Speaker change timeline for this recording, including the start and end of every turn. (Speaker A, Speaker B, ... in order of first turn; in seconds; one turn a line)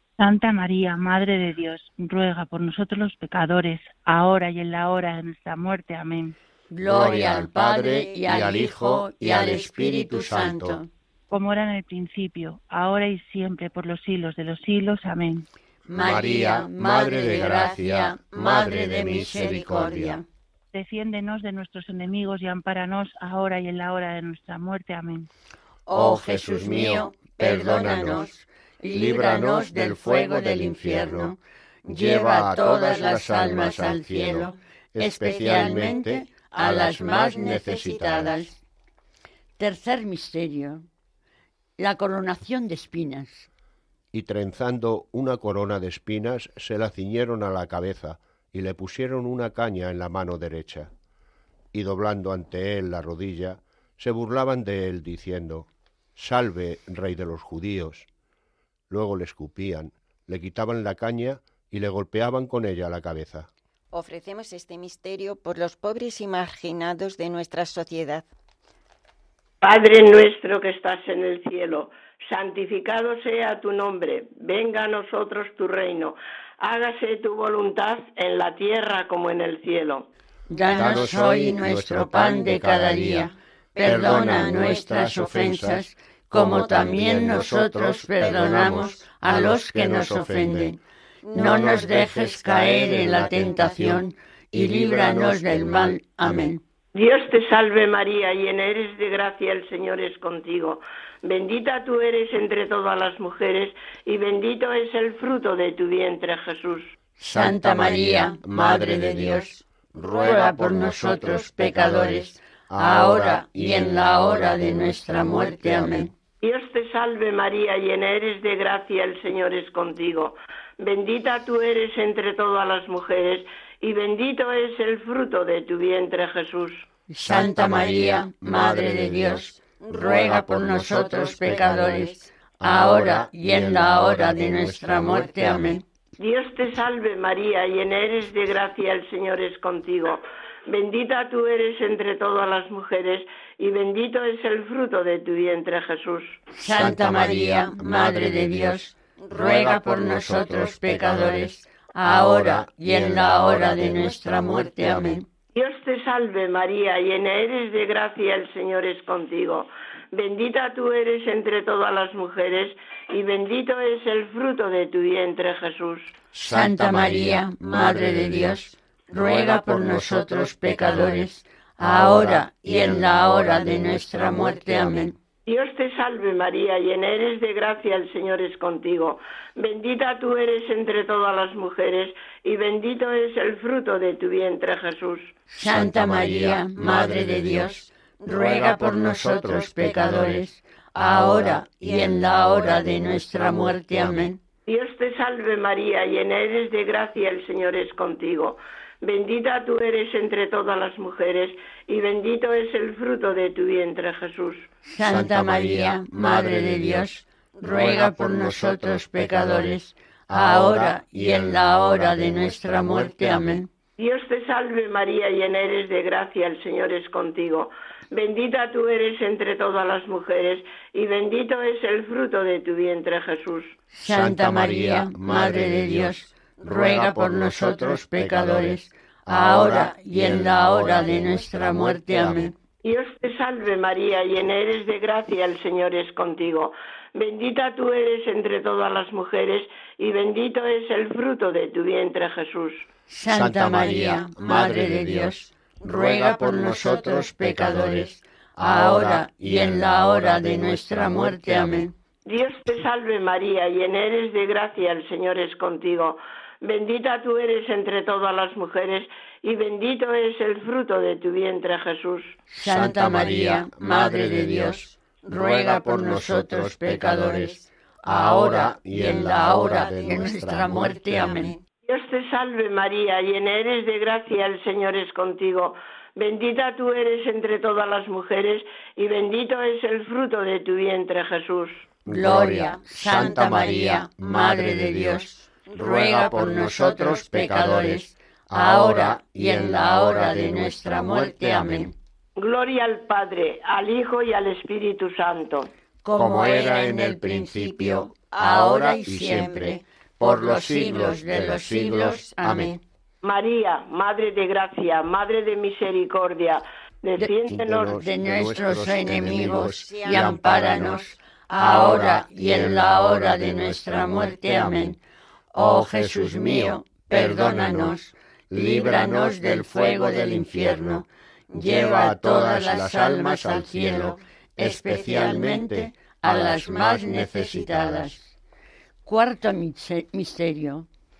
Speaker A: 0.2-6.3
Speaker B: 6.7-10.9
Speaker C: 6.8-10.8
Speaker A: 11.3-15.5
Speaker B: 15.9-20.2
Speaker C: 15.9-20.2
Speaker D: 19.2-20.2
Speaker A: 20.7-25.3
Speaker B: 25.9-38.6
Speaker C: 25.9-28.3
Speaker C: 28.9-31.3
Speaker C: 31.9-38.5
Speaker B: 39.6-40.9
Speaker B: 41.8-43.5
Speaker C: 44.1-50.9
Speaker C: 51.7-58.1
Speaker C: 58.9-63.5
Speaker D: 63.9-68.3
Speaker E: 69.6-80.1
Speaker B: 80.5-90.8
Speaker C: 80.7-83.3
Speaker D: 83.8-84.7
Speaker C: 83.8-90.8
Speaker D: 91.2-94.0
Speaker B: 91.3-96.6
Speaker C: 91.4-96.5
Speaker E: 97.0-106.9
Speaker B: 107.2-116.1
Speaker C: 107.3-116.1
Speaker E: 116.4-126.8
Speaker B: 127.1-135.8
Speaker C: 127.2-135.8
Speaker D: 129.8-132.3
Speaker E: 136.2-146.4
Speaker B: 146.5-155.2
Speaker C: 146.7-151.5
Speaker D: 149.2-149.6
Speaker D: 150.4-150.7
Speaker C: 152.0-155.2
Speaker E: 155.6-166.1
Speaker C: 166.3-168.6
Speaker B: 166.4-175.2
Speaker C: 169.2-171.3
Speaker C: 171.8-174.3
Speaker D: 173.9-174.8
Speaker E: 175.5-185.3
Speaker B: 185.5-194.4
Speaker C: 185.6-187.8
Speaker D: 188.2-190.2
Speaker C: 188.3-190.4
Speaker C: 191.0-191.6
Speaker C: 192.3-194.3
Speaker E: 194.7-204.7
Speaker B: 204.8-213.7
Speaker C: 205.0-213.6
Speaker E: 214.0-223.8
Speaker B: 223.9-232.5
Speaker C: 224.0-232.5
Speaker D: 230.9-231.3
Speaker E: 232.8-242.8
Speaker B: 243.1-251.9
Speaker C: 243.2-251.9
Speaker D: 245.8-247.3
Speaker E: 252.3-262.4
Speaker B: 262.5-271.6
Speaker C: 262.6-271.5
Speaker D: 269.4-271.6
Speaker E: 271.9-281.8
Speaker C: 282.1-285.2
Speaker B: 282.1-291.9
Speaker D: 282.4-283.9
Speaker C: 285.8-291.9
Speaker E: 292.4-295.7
Speaker B: 296.1-302.8
Speaker C: 296.1-302.7
Speaker D: 298.3-299.8
Speaker E: 303.2-308.0
Speaker C: 307.5-310.8
Speaker B: 307.9-315.0
Speaker D: 309.2-311.1
Speaker C: 311.6-314.9
Speaker B: 315.6-328.3
Speaker C: 315.6-318.0
Speaker C: 318.5-321.0
Speaker C: 321.6-328.1
Speaker B: 329.1-330.9